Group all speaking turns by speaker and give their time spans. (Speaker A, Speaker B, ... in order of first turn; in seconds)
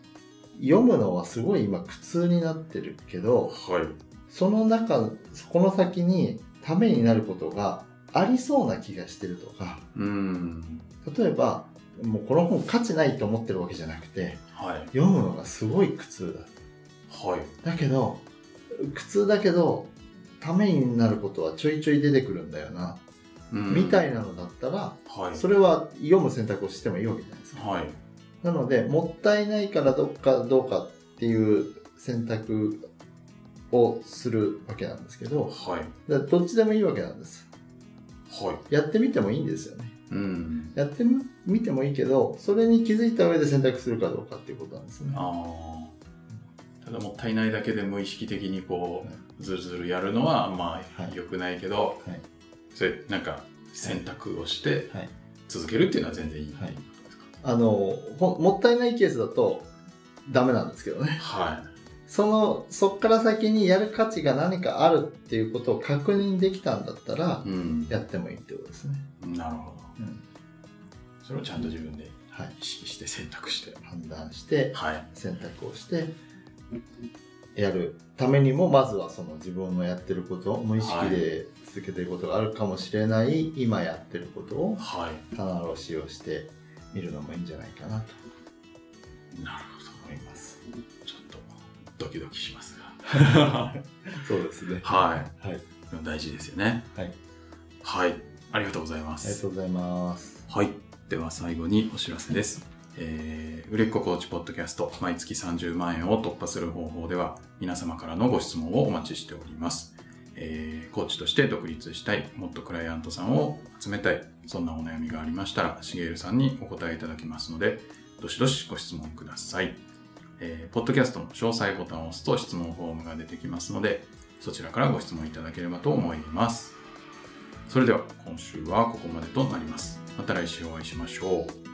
Speaker A: 0.5-3.5, 4.3-9.8, 11.0-16.5, 17.6-23.0, 23.7-27.6, 28.4-32.8, 33.7-35.5, 36.0-37.5, 38.7-40.0, 40.7-45.2, 57.4-59.7, 60.2-61.2, 62.1-69.1, 73.8-76.2, 77.5-88.2, 90.0-90.6, 93.1-95.6, 99.2-100.5
Speaker B: 3.5-4.0, 9.9-10.8, 14.5-14.9, 17.1-17.5, 23.5-24.1, 25.1-25.4, 27.5-28.0, 35.5-35.9, 38.3-38.6, 40.1-40.7, 45.1-45.9, 46.8-52.0, 52.7-54.9, 55.5-57.3, 61.2-61.7, 67.4-67.9, 69.2-70.0, 71.2-73.8, 74.7-75.1, 80.8-81.2, 84.8-85.2, 89.3-90.1, 91.0-93.8, 94.8-95.3, 95.8-96.9, 97.8-99.4, 100.5-119.8, 120.4-126.8, 127.7-131.6